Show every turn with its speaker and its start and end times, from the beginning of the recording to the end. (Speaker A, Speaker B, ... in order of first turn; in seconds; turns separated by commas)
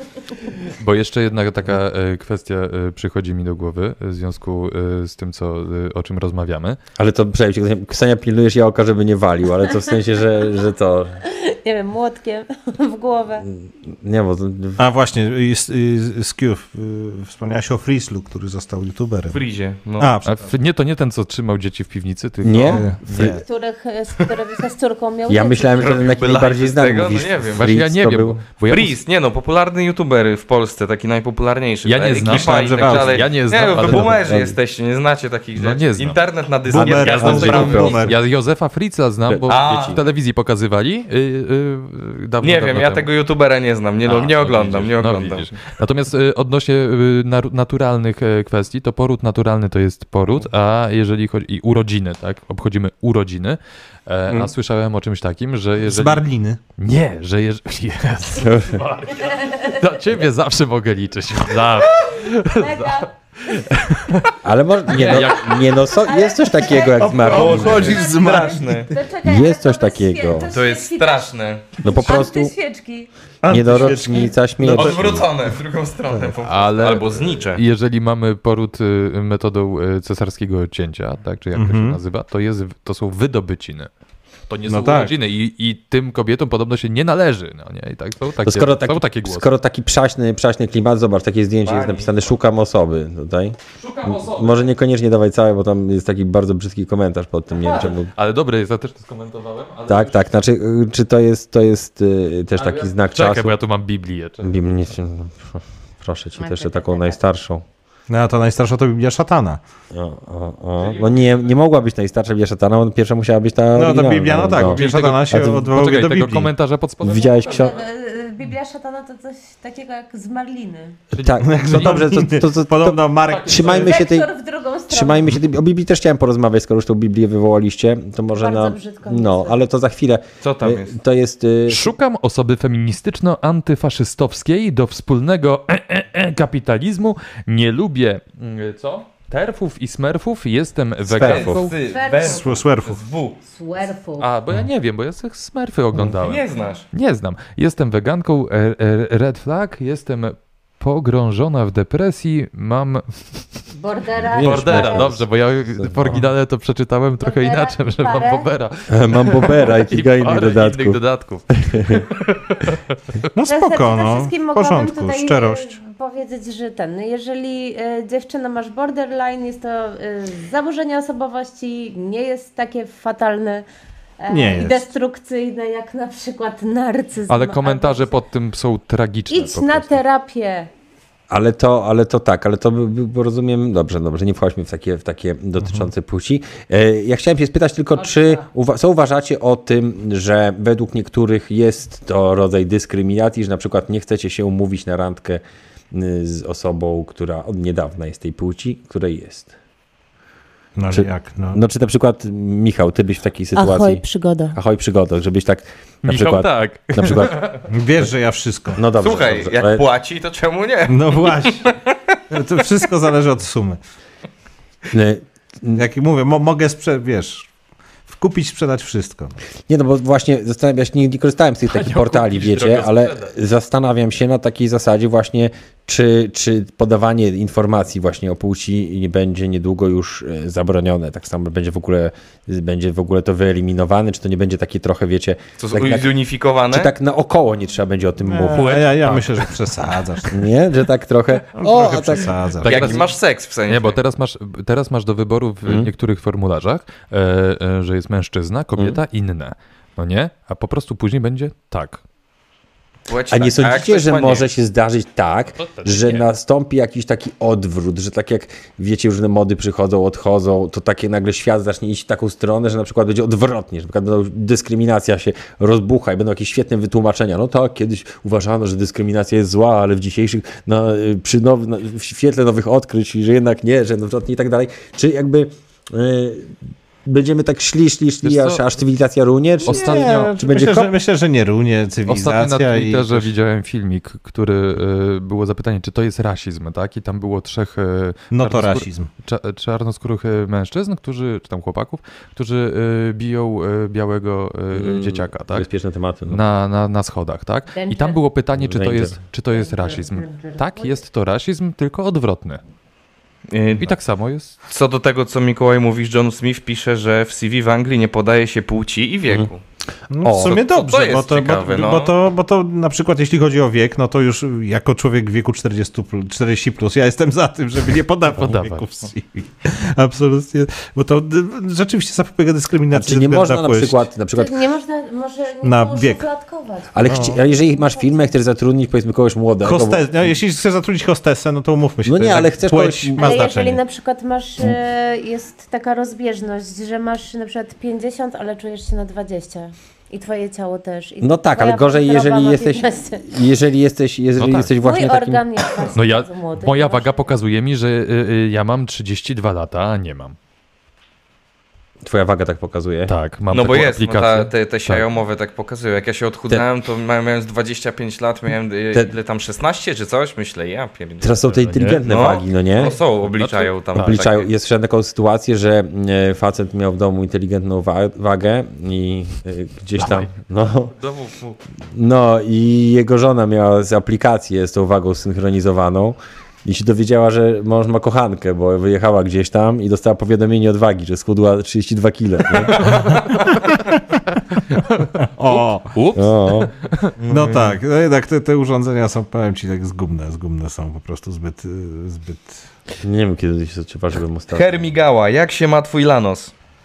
Speaker A: 0.7-6.8, Speaker B: 7.0-11.2, Speaker C: 11.2-13.5, Speaker B: 13.5-14.8, Speaker D: 14.8-19.4, Speaker E: 19.3-20.1, Speaker D: 20.0-20.5, Speaker A: 20.2-23.4, Speaker B: 22.4-23.4, Speaker D: 22.6-23.4, Speaker C: 23.2-26.0, Speaker B: 25.3-28.4, Speaker E: 25.9-27.6, Speaker A: 27.6-29.0, Speaker E: 28.7-38.0, Speaker A: 31.8-34.2, Speaker D: 32.2-33.3, Speaker B: 33.9-34.5, Speaker A: 35.5-36.2, Speaker D: 36.7-38.2, Speaker A: 36.7-43.1, Speaker B: 37.2-38.1, Speaker B: 39.2-40.0, Speaker E: 39.5-40.0, Speaker E: 42.4-45.5, Speaker A: 44.0-56.2, Speaker D: 55.8-56.6, Speaker A: 56.8-64.3, Speaker B: 58.4-58.8, Speaker C: 59.2-59.8, Speaker C: 62.5-63.7, Speaker B: 64.4-68.0, Speaker A: 64.9-65.7, Speaker C: 65.0-71.3, Speaker D: 66.9-68.9, Speaker E: 67.2-68.9, Speaker B: 69.2-70.5, Speaker E: 70.5-71.7, Speaker B: 71.8-72.5, Speaker C: 71.8-73.1, Speaker D: 73.4-75.2, Speaker B: 73.5-75.2, Speaker E: 74.6-77.6, Speaker A: 76.4-83.9, Speaker D: 81.5-82.0, Speaker A: 84.5-89.5, Speaker D: 84.7-85.1, Speaker B: 88.4-98.1, Speaker E: 91.6-92.2, Speaker A: 93.7-94.7, Speaker A: 97.5-100.2, Speaker B: 99.9-103.5, Speaker A: 102.5-104.5, Speaker B: 104.4-107.6, Speaker C: 106.4-107.2, Speaker D: 108.1-109.6, Speaker B: 109.9-115.7, Speaker A: 110.8-111.5, Speaker D: 113.7-116.5, Speaker A: 114.5-117.8, Speaker B: 117.0-117.7, Speaker C: 117.1-121.0, Speaker B: 121.1-124.3, Speaker A: 121.1-122.0, Speaker D: 121.4-123.9, Speaker A: 123.3-123.9, Speaker C: 123.6-125.3, Speaker B: 124.9-131.9, Speaker C: 128.3-129.6, Speaker E: 130.4-130.9, Speaker A: 131.7-141.8, Speaker B: 141.0-141.6, Speaker E: 141.1-143.4, Speaker C: 141.8-142.6, Speaker D: 142.2-143.0, Speaker C: 143.4-144.3, Speaker A: 144.2-153.6, Speaker E: 146.1-146.8, Speaker C: 153.7-155.2, Speaker B: 154.2-156.2, Speaker A: 154.3-163.3, Speaker C: 157.2-158.5, Speaker B: 158.9-161.0, Speaker B: 161.7-162.0, Speaker D: 163.3-165.8, Speaker C: 163.4-173.6, Speaker C: 174.2-178.2, Speaker D: 174.3-174.8, Speaker A: 177.3-180.0, Speaker C: 179.3-180.7, Speaker B: 181.3-199.5, Speaker D: 185.6-185.9, Speaker C: 187.9-188.4, Speaker D: 200.8-201.6, Speaker B: 200.9-207.4, Speaker C: 203.5-204.6, Speaker A: 206.0-207.7, Speaker D: 207.7-208.8, Speaker B: 208.7-209.8, Speaker E: 209.0-212.1, Speaker D: 210.9-211.7, Speaker D: 212.3-213.8, Speaker B: 214.9-215.8, Speaker D: 215.8-217.5, Speaker D: 218.1-219.4, Speaker B: 219.7-236.1, Speaker A: 221.7-223.3, Speaker E: 235.6-236.9, Speaker B: 236.7-239.2, Speaker D: 238.2-240.4, Speaker B: 240.3-243.0, Speaker D: 241.5-243.0, Speaker A: 242.6-243.0, Speaker E: 242.6-244.0, Speaker A: 243.7-252.0, Speaker B: 245.6-245.9, Speaker E: 253.1-254.5, Speaker B: 253.3-280.9, Speaker A: 255.6-256.2, Speaker A: 278.2-278.6, Speaker A: 279.6-280.4, Speaker D: 279.6-283.3, Speaker A: 282.1-295.7, Speaker D: 288.3-289.1, Speaker B: 294.7-296.4, Speaker A: 296.3-302.6, Speaker C: 297.7-298.2, Speaker B: 298.5-299.2, Speaker C: 299.5-301.0, Speaker E: 303.5-303.9, Speaker A: 303.8-304.5, Speaker E: 304.7-309.6, Speaker D: 310.1-324.0, Speaker B: 310.2-310.6, Speaker E: 310.4-312.1, Speaker A: 318.3-318.9, Speaker B: 322.9-324.6, Speaker C: 324.3-328.3, Speaker D: 325.6-326.2, Speaker B: 326.9-330.1, Speaker D: 327.0-327.4, Speaker D: 329.6-333.8, Speaker B: 332.0-333.6, Speaker C: 333.2-343.3, Speaker B: 341.2-345.5, Speaker A: 344.4-344.7, Speaker C: 344.8-347.3, Speaker A: 345.9-350.4, Speaker B: 352.0-353.1, Speaker A: 353.1-355.0, Speaker E: 353.5-361.4, Speaker B: 361.2-362.9, Speaker A: 361.4-362.0, Speaker E: 362.0-364.5, Speaker A: 363.2-364.3, Speaker B: 363.9-370.9, Speaker A: 370.0-370.3, Speaker A: 371.0-371.6, Speaker B: 371.9-383.0, Speaker A: 384.3-387.1, Speaker D: 385.3-385.9, Speaker B: 386.1-386.7, Speaker D: 387.2-392.6, Speaker B: 387.2-387.7, Speaker B: 393.0-394.9, Speaker E: 394.5-396.5